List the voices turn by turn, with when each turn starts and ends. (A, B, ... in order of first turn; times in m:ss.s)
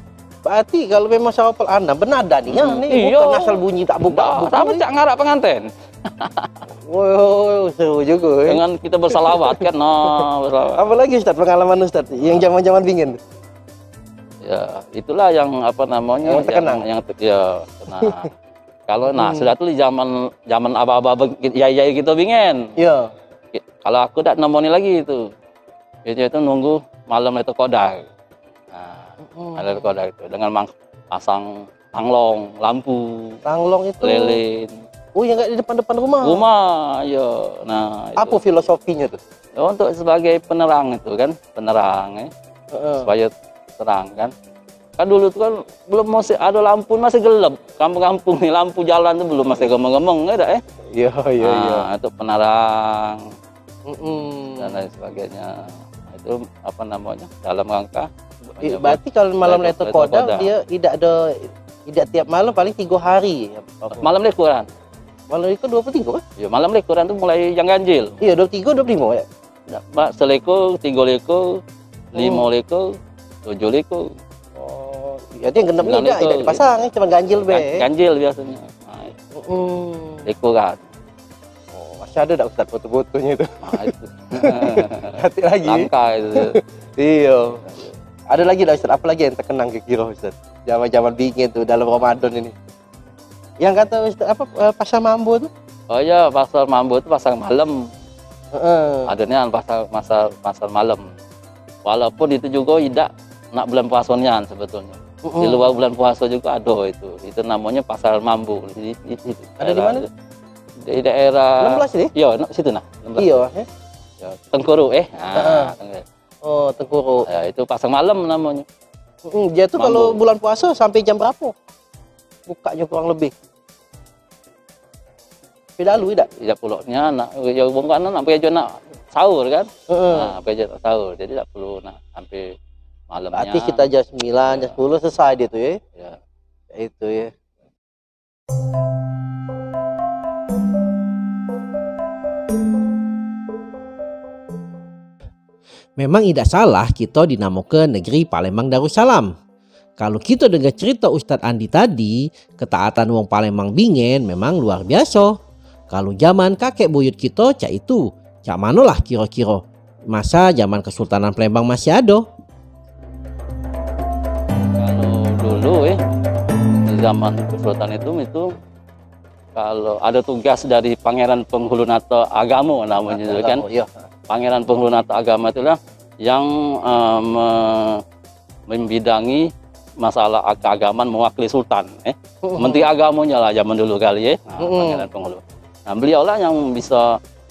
0:00.4-0:04.8 A
0:02.5-0:06.6 B
0:06.9-0:13.2 A
0:08.4-0:10.8 B
0:14.4-0:18.3 B
0:16.2-0:16.8 A
0:17.9-0:18.2 A
0:18.9-0:22.6 B
0:19.1-0:19.5 A
0:22.8-0:23.1 A
0:23.5-0:25.2 B
0:26.0-0:28.0 B
0:28.7-0:33.4 B
0:29.4-0:29.8 A
0:33.4-0:34.4 A
0:34.0-0:34.8 B
0:35.2-0:36.4 A
0:36.2-0:38.4 B
0:38.2-0:39.2 A
0:39.6-0:42.3 B
0:42.7-0:43.1 A
0:43.0-0:44.3 B
0:45.0-0:50.6 B
0:50.9-0:51.9 A
0:51.4-0:53.3 B
0:53.9-0:54.8 A
0:54.6-1:00.5 B
0:58.6-1:04.1 A
1:04.0-1:04.7 B
1:05.3-1:06.2 A
1:06.4-1:08.1 B
1:08.2-1:09.2 A
1:09.7-1:11.6 B
1:12.1-1:12.5 A
1:12.2-1:12.9 B
1:13.4-1:14.1 B
1:14.6-1:17.8 A
1:15.8-1:16.6 B
1:17.4-1:19.1 B
1:19.4-1:20.2 A
1:20.2-1:20.8 B
1:21.7-1:27.6 A
1:23.6-1:26.6 B
1:27.6-1:27.9 B
1:28.3-1:32.5 A
1:33.6-1:35.5 A
1:35.9-1:37.8 B
1:38.5-1:39.1 A
1:39.0-1:41.0 B
1:41.8-1:50.1 B
1:45.2-1:45.7 A
1:49.6-1:50.1 A
1:50.8-1:53.3 B
1:51.6-1:52.1 A
1:53.2-1:53.7 A
1:54.2-1:56.0 B
1:55.3-1:55.7 A
1:56.4-1:57.2 A
1:57.3-1:58.6 B
1:59.2-2:01.5 A
1:59.8-2:00.2 B
2:02.5-2:03.3 A
2:05.8-2:06.3 A
2:06.4-2:12.5 B
2:09.9-2:10.3 A
2:13.1-2:13.8 B
2:13.3-2:15.8 A
2:14.5-2:14.8 B
2:16.7-2:17.3 A
2:26.0-2:29.3 C
2:30.0-2:35.3 C
2:35.9-2:42.2 C
2:44.8-2:46.0 B
2:46.8-2:48.5 B
2:49.5-2:53.6 B
2:53.1-2:53.9 A
2:54.3-2:58.0 B
2:58.7-2:59.5 B
3:00.0-3:07.2 B
3:02.4-3:02.9 A
3:04.6-3:05.0 A